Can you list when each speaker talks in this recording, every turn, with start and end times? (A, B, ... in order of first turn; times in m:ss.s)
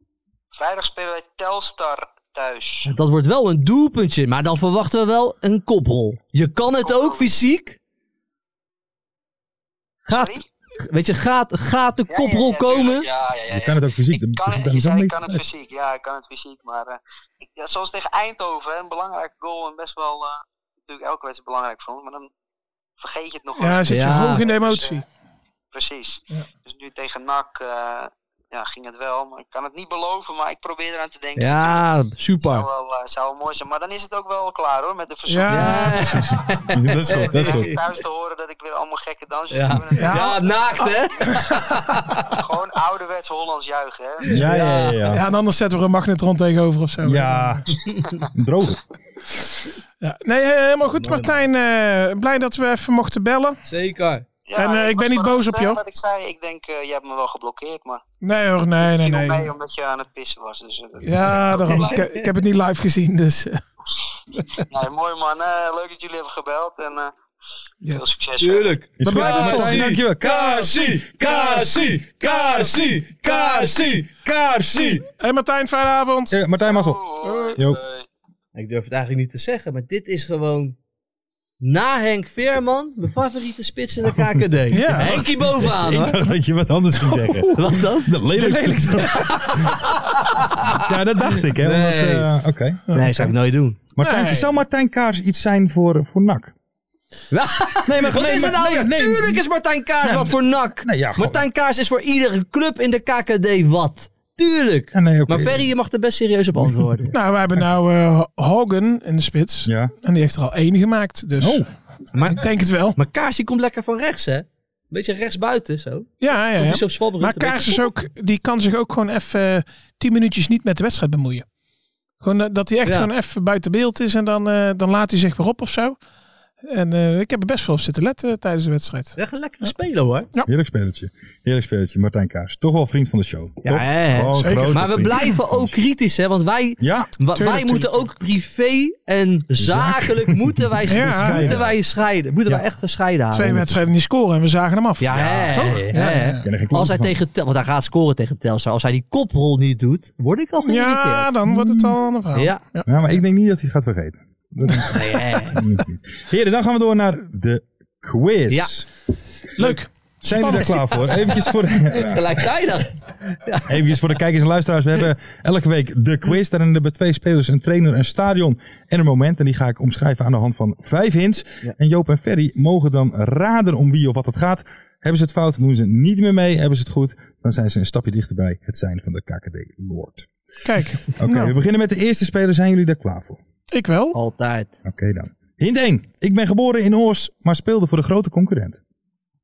0:00.6-0:02.9 A
0:02.8-0:07.8 B
0:06.8-0:07.3 A
0:10.0-0:13.1 B
0:10.1-0:10.4 A
0:12.1-0:22.3 A
0:13.5-0:15.4 C
0:23.0-0:25.0 A
0:23.6-0:25.1 D
0:23.9-0:24.4 B
0:25.7-0:31.8 A
0:31.4-0:32.7 B
0:32.4-0:36.3 A
0:35.3-0:36.3 D
0:35.5-0:37.8 B
0:36.7-0:37.7 C
0:37.1-0:41.6 A
0:39.5-0:42.3 B
0:40.0-0:40.4 D
0:42.2-0:44.4 A
0:44.2-0:45.1 B
0:44.3-0:45.2 C
0:45.1-0:47.6 D
0:47.0-0:48.8 C
0:50.0-0:53.6 D
0:50.9-0:51.4 B
0:53.6-0:54.3 B
0:54.5-0:58.0 A
0:54.6-0:55.8 D
0:58.2-0:59.5 D
0:58.8-1:02.0 A
1:01.0-1:03.6 D
1:01.8-1:02.3 B
1:04.6-1:07.1 A
1:07.8-1:08.1 D
1:08.0-1:08.8 A
1:08.4-1:14.1 B
1:09.0-1:15.0 C
1:09.0-1:09.9 D
1:15.2-1:16.4 D
1:16.3-1:17.0 C
1:16.6-1:18.1 A
1:17.2-1:17.6 D
1:17.5-1:17.8 C
1:18.6-1:20.8 B
1:21.6-1:26.2 B
1:24.7-1:25.3 D
1:24.8-1:29.8 C
1:27.5-1:32.3 B
1:28.4-1:29.1 D
1:30.7-1:33.3 C
1:32.9-1:33.8 B
1:34.0-1:36.5 C
1:34.0-1:34.5 D
1:37.3-1:47.1 B
1:37.9-1:39.4 C
1:40.0-1:41.4 C
1:44.9-1:45.7 C
1:46.6-1:46.9 C
1:47.1-1:51.7 D
1:49.6-1:49.9 C
1:51.4-1:51.7 C
1:52.1-1:57.9 B
1:52.3-1:53.0 D
1:56.2-2:01.4 D
2:02.2-2:06.0 D
2:02.8-2:03.1 B
2:06.7-2:09.7 D
2:09.2-2:10.3 B
2:10.5-2:15.8 C
2:13.6-2:23.6 B
2:14.4-2:15.3 D
2:16.8-2:17.1 C
2:17.4-2:18.0 D
2:19.6-2:21.8 C
2:20.9-2:21.6 D
2:23.3-2:26.4 D
2:23.5-2:23.8 C
2:25.0-2:31.3 B
2:25.1-2:27.2 C
2:30.6-2:32.9 D
2:31.5-2:32.0 C
2:32.3-2:32.6 B
2:32.8-2:38.9 C
2:34.7-2:35.7 B
2:39.6-2:41.0 D
2:39.6-2:42.5 C
2:41.8-2:44.0 B
2:43.7-3:00.3 C
3:00.6-3:01.5 D
3:01.2-3:03.4 C
3:03.7-3:04.2 D
3:04.1-3:04.8 B
3:04.8-3:08.8 C